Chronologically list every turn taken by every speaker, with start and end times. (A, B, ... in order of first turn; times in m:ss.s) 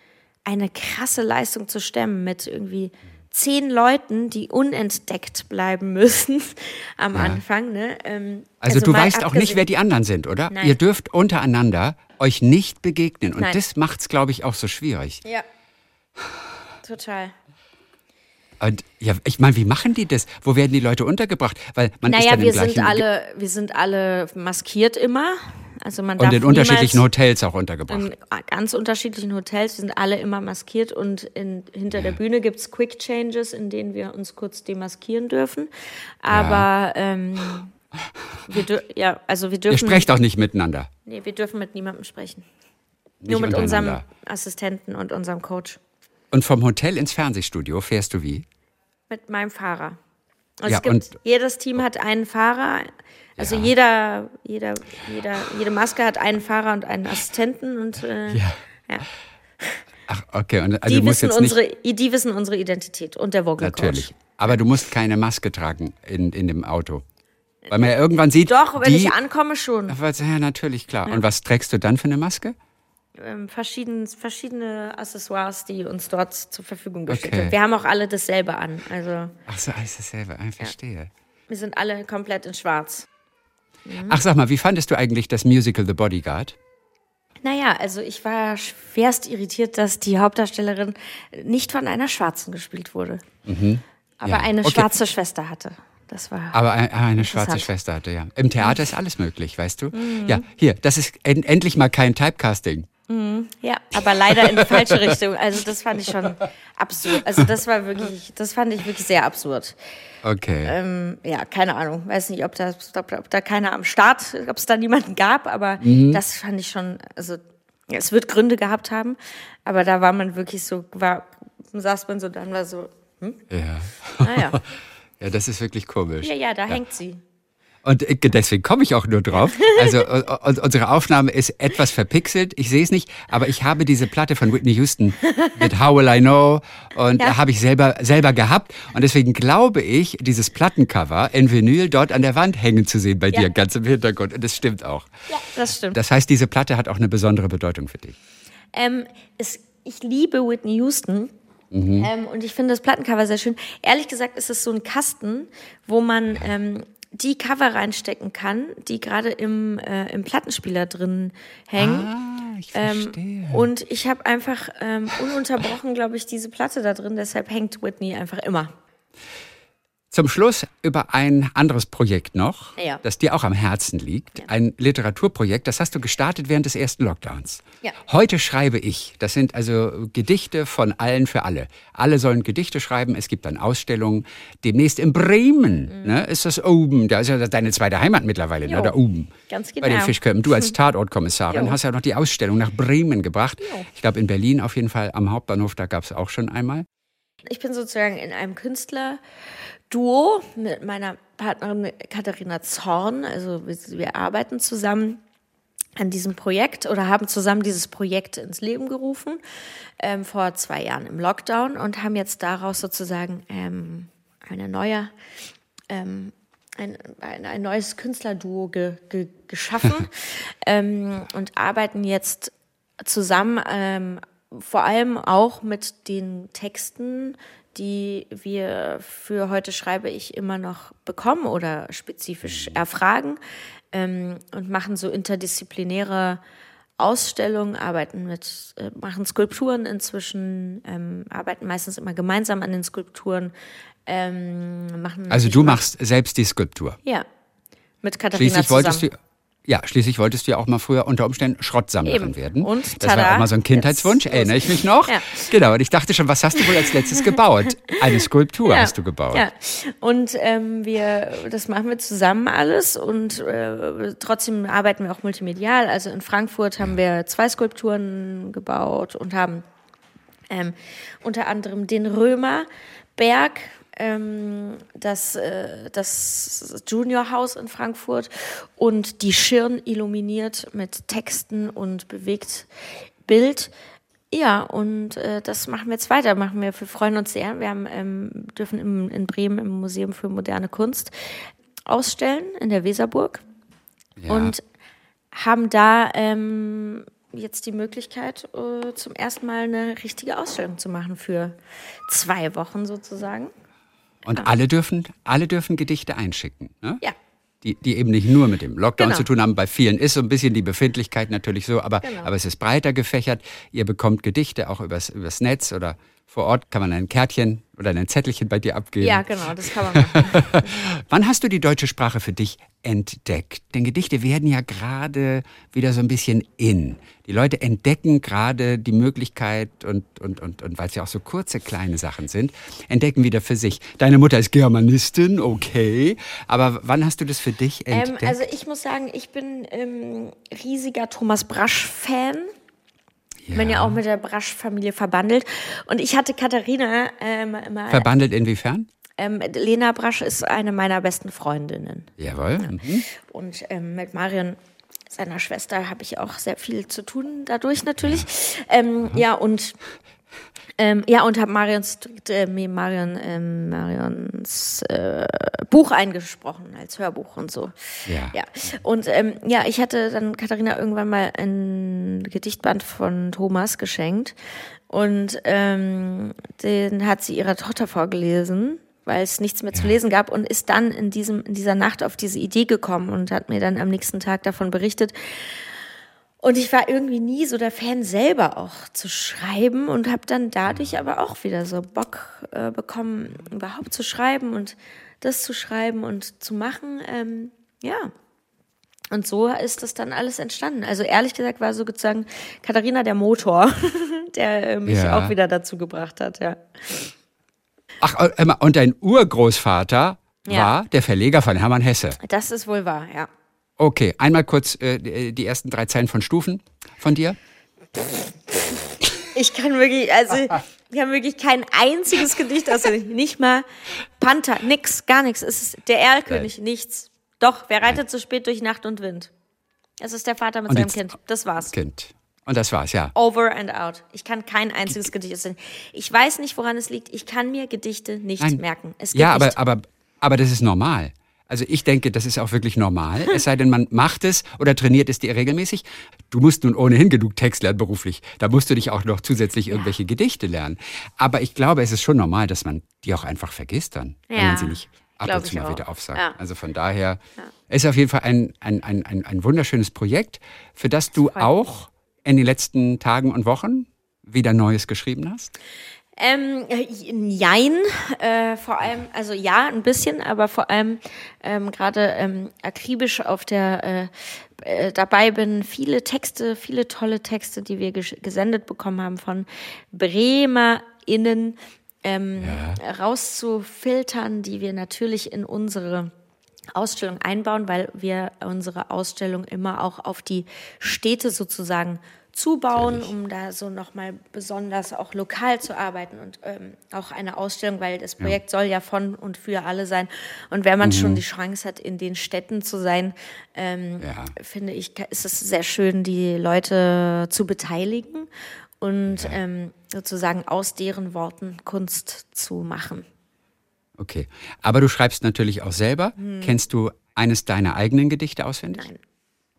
0:00.5-0:09.6 A
0:07.1-0:07.4 B
0:08.6-0:15.2 B
0:10.5-0:10.8 A
0:16.8-0:17.3 A
0:18.6-0:23.1 B
0:22.0-0:27.1 A
0:26.2-0:28.1 B
0:27.9-0:35.7 A
0:31.9-0:32.2 B
0:36.2-0:37.8 A
0:36.3-0:36.7 B
0:38.5-0:40.1 A
0:39.7-0:40.9 B
0:41.1-0:42.5 A
0:43.2-0:44.0 B
0:43.3-0:45.8 A
0:46.3-0:48.4 B
0:49.1-0:50.0 A
0:50.6-0:59.1 A
0:50.7-0:51.1 B
0:53.4-0:53.7 B
0:58.3-0:58.6 B
1:00.1-1:01.6 B
1:00.9-1:04.1 A
1:03.6-1:07.0 B
1:07.7-1:09.2 B
1:08.4-1:10.0 A
1:09.9-1:12.6 B
1:13.2-1:19.4 A
1:17.1-1:17.6 B
1:19.5-1:21.1 B
1:21.5-1:23.1 A
1:23.9-1:24.2 A
1:24.1-1:26.6 B
1:27.4-1:33.2 A
1:33.5-1:34.9 B
1:34.2-1:36.6 A
1:36.5-1:42.9 B
1:37.2-1:37.7 A
1:39.9-1:40.4 A
1:43.1-1:49.8 A
1:44.3-1:45.2 B
1:50.2-1:50.8 B
1:50.6-2:03.4 A
1:55.8-1:56.2 B
2:03.5-2:04.7 B
2:04.2-2:04.6 A
2:05.2-2:06.8 B
2:06.2-2:07.2 A
2:07.8-2:25.1 B
2:09.3-2:10.0 A
2:15.2-2:15.6 A
2:25.3-2:26.0 A
2:25.9-2:28.2 B
2:28.7-2:31.3 A
2:31.7-2:32.1 B
2:32.0-2:42.1 A
2:41.8-2:43.7 B
2:42.7-2:48.7 A
2:50.1-3:16.9 B
2:52.8-2:53.0 A
3:05.9-3:06.2 A
3:08.6-3:08.9 A
3:09.5-3:10.7 A
3:11.5-3:11.8 A
3:17.5-3:19.2 A
3:19.9-3:25.2 A
3:26.0-3:29.4 A
3:30.0-3:35.1 A
3:35.9-3:53.4 A
3:52.5-3:52.8 B
3:53.9-3:56.4 A
3:57.0-4:03.5 A
4:04.1-4:05.8 A
4:05.3-4:07.0 B
4:08.0-4:09.1 A
4:08.4-4:19.5 B
4:12.0-4:15.5 A
4:16.8-4:17.3 A
4:18.7-4:29.6 A
4:30.5-4:42.7 A
4:43.2-4:43.7 A
4:44.3-4:53.4 A
4:54.2-4:54.5 B
4:54.3-4:54.6 A
4:55.3-5:03.5 A
5:04.2-5:07.0 B
5:07.6-5:38.4 B
5:09.0-5:09.3 A
5:12.0-5:12.3 A
5:19.0-5:20.9 A
5:37.9-5:42.5 A
5:43.4-5:44.0 B
5:43.5-5:48.1 A
5:47.9-5:48.9 B
5:49.2-5:54.6 A
5:52.2-5:53.0 B
5:55.1-5:59.8 A
5:58.0-5:58.3 B
6:00.8-6:07.7 A
6:08.1-6:08.4 B
6:08.3-6:14.4 A
6:14.9-6:25.8 A
6:26.4-6:38.1 A
6:39.1-6:47.1 A
6:44.9-6:45.4 B
6:48.0-6:52.2 B
6:50.5-6:50.7 A
6:52.2-6:53.3 A
6:53.8-6:57.4 B
6:59.3-7:03.7 A
7:04.2-7:09.3 A
7:10.0-7:11.7 A
7:10.7-7:11.0 B
7:11.7-7:13.1 B
7:13.2-7:19.6 A
7:19.1-7:45.5 B
7:34.3-7:36.4 A
7:46.2-8:06.1 A
8:02.4-8:02.8 B
8:06.8-8:28.3 A
8:12.8-8:13.1 B
8:20.8-8:21.2 B
8:24.0-8:24.3 B
8:28.8-8:33.1 A
8:29.1-8:29.4 B
8:34.0-8:38.9 B
8:36.2-8:36.6 A